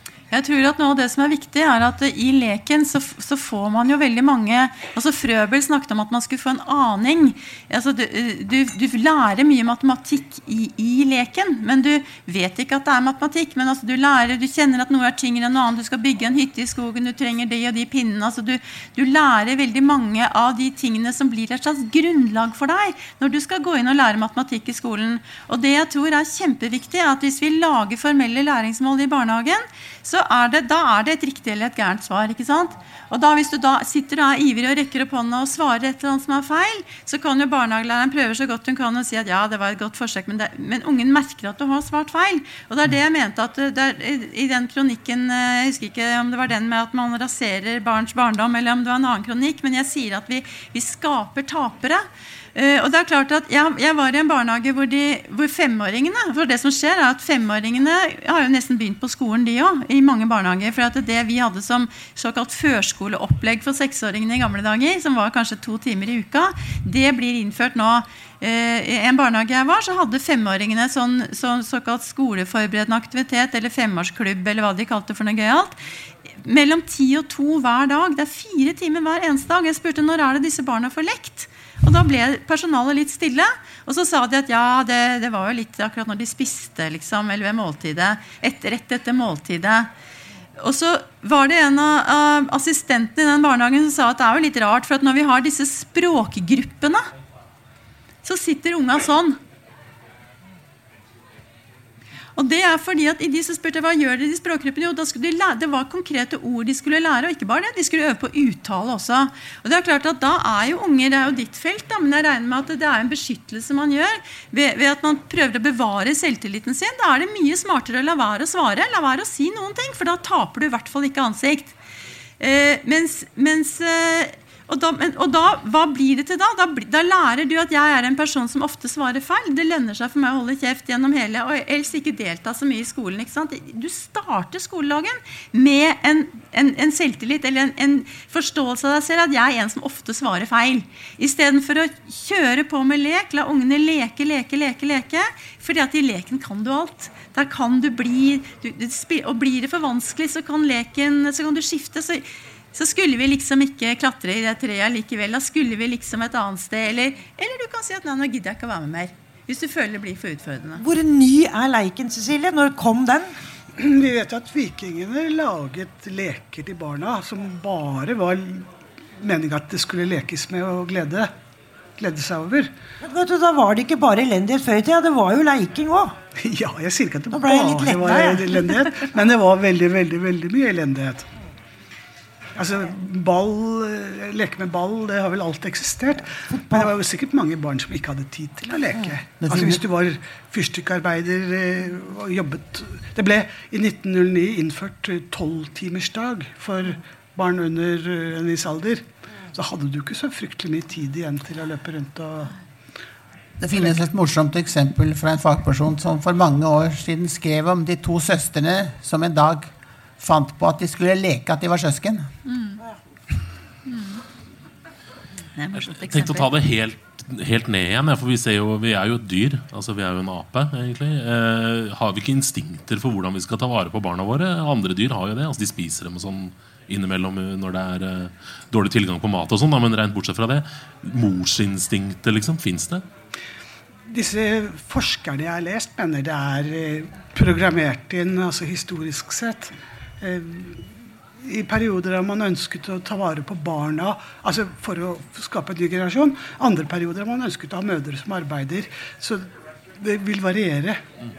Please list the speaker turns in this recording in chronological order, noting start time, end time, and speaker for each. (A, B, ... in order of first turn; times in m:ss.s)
0:00.3-0:52.0 A
0:52.6-1:15.8 A
1:16.4-1:29.9 A
1:30.6-1:37.0 A
1:38.2-1:39.4 A
1:42.4-2:01.8 A
2:02.4-2:40.8 A
2:40.8-2:43.3 B
2:43.8-2:48.7 C
2:49.2-2:51.3 C
2:52.0-2:52.7 C
2:53.0-2:56.2 B
2:56.4-3:01.3 C
2:57.3-2:58.6 B
3:02.6-3:22.6 C
3:06.6-3:06.9 B
3:09.4-3:09.8 D
3:23.6-3:32.3 D
3:32.5-3:32.8 A
3:33.9-3:34.2 A
3:35.6-3:36.5 A
3:35.8-3:53.0 E
3:54.1-4:00.9 C
4:01.4-4:09.5 C
4:10.0-4:11.0 C